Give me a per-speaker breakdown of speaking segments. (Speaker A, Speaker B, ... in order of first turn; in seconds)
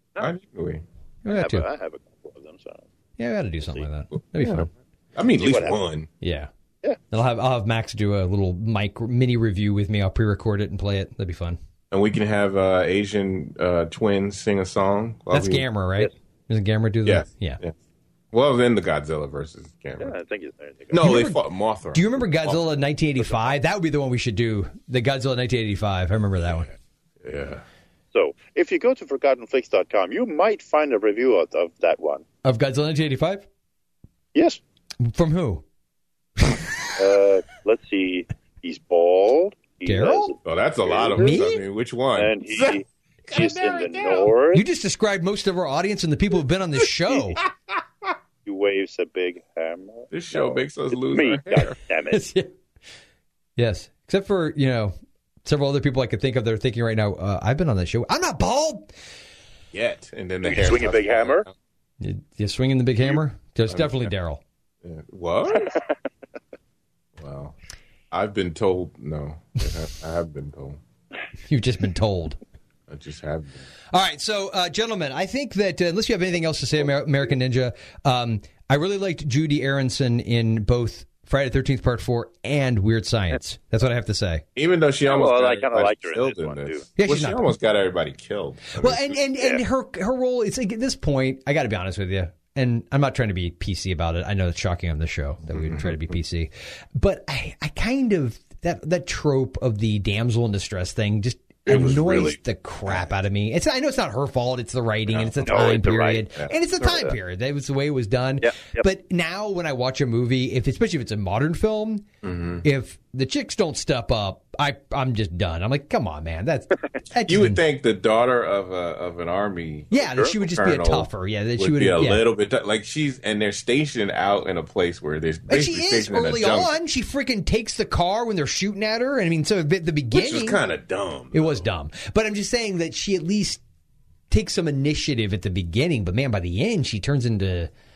Speaker A: 0.2-0.8, 4.3-6.1, 11.9-15.7, 17.1-17.7, 18.3-20.1, 20.9-22.6, 26.5-27.6, 40.5-44.3, 50.1-51.8, 59.7-61.5, 63.7-64.1, 64.8-65.7, 67.2-67.5, 68.1-70.8, 72.9-73.6, 84.6-89.2, 95.5-96.2, 101.7-102.4, 105.1-105.7, 112.2-112.6, 117.3-126.7, 130.1-131.7
Speaker B: 1.2-1.7, 3.2-4.7, 6.2-6.5, 7.1-11.6, 15.3-17.6, 21.0-21.4, 21.9-26.7, 32.4-33.5, 35.0-35.6, 39.9-40.4, 41.2-41.6, 44.5-47.4, 52.1-52.5, 53.6-58.9, 62.0-64.4, 71.5-72.4, 73.9-84.4, 87.0-87.5, 88.8-112.1, 112.6-117.6, 119.9-122.2, 125.5-130.6, 131.3-133.6, 134.3-137.7
Speaker C: 1.3-2.9, 5.4-5.8, 20.0-21.1, 28.1-32.2, 34.4-34.6, 37.0-41.4, 42.2-44.6, 48.5-52.2, 60.4-61.5, 85.1-86.9, 105.4-106.3, 106.8-107.1, 108.4-108.8, 119.9-120.3